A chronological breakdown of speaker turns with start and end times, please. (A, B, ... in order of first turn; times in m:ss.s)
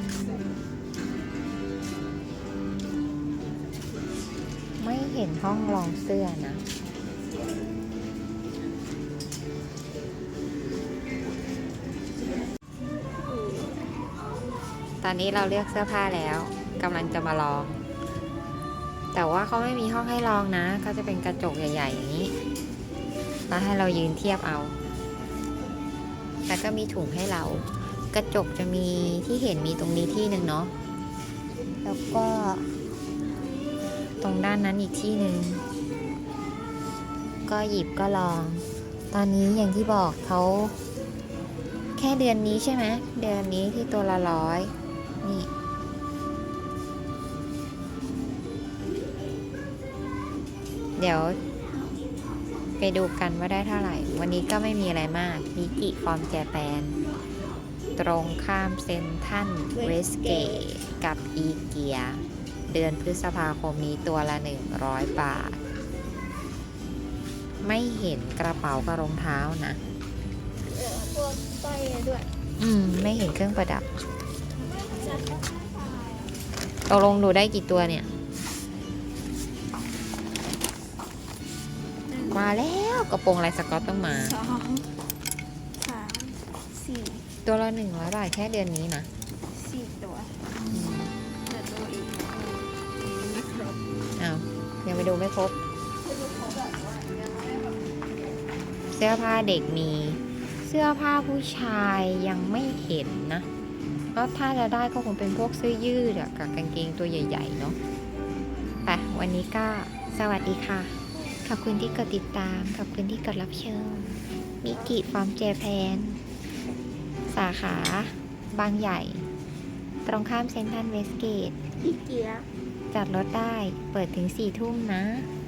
0:04.8-0:06.6 A
0:13.2-0:13.7 B
0:15.0-0:17.8 A
0:19.1-0:22.3 A
0:23.5-0:24.8 A
0:26.5-0:30.7 A
0:31.8-0:32.7 A
0:34.2-0:35.6 A
0:37.5-0:40.8 A
0:42.0-0:45.5 A
0:51.0-0:51.4 A
0:52.8-0:57.0 A
0:58.0-1:05.6 A
0:59.7-1:00.6 B
1:07.6-1:09.8 A
1:10.7-1:12.3 B
1:12.6-1:13.9 A
1:14.6-1:16.3 B
1:16.9-1:18.1 A
1:22.1-1:22.5 B
1:22.3-1:24.4 A
1:24.3-1:24.9 B
1:25.8-1:27.2 B
1:27.4-1:29.1 A
1:29.5-1:30.4 B
1:30.7-1:31.1 A
1:31.5-1:32.7 B
1:33.3-1:33.7 B
1:34.2-1:35.5 A
1:38.9-1:43.5 A
1:44.2-1:47.8 A
1:48.9-1:56.2 A
1:57.3-1:59.2 A
2:00.1-2:01.6 A
2:01.8-2:02.5 B
2:02.9-2:05.3 A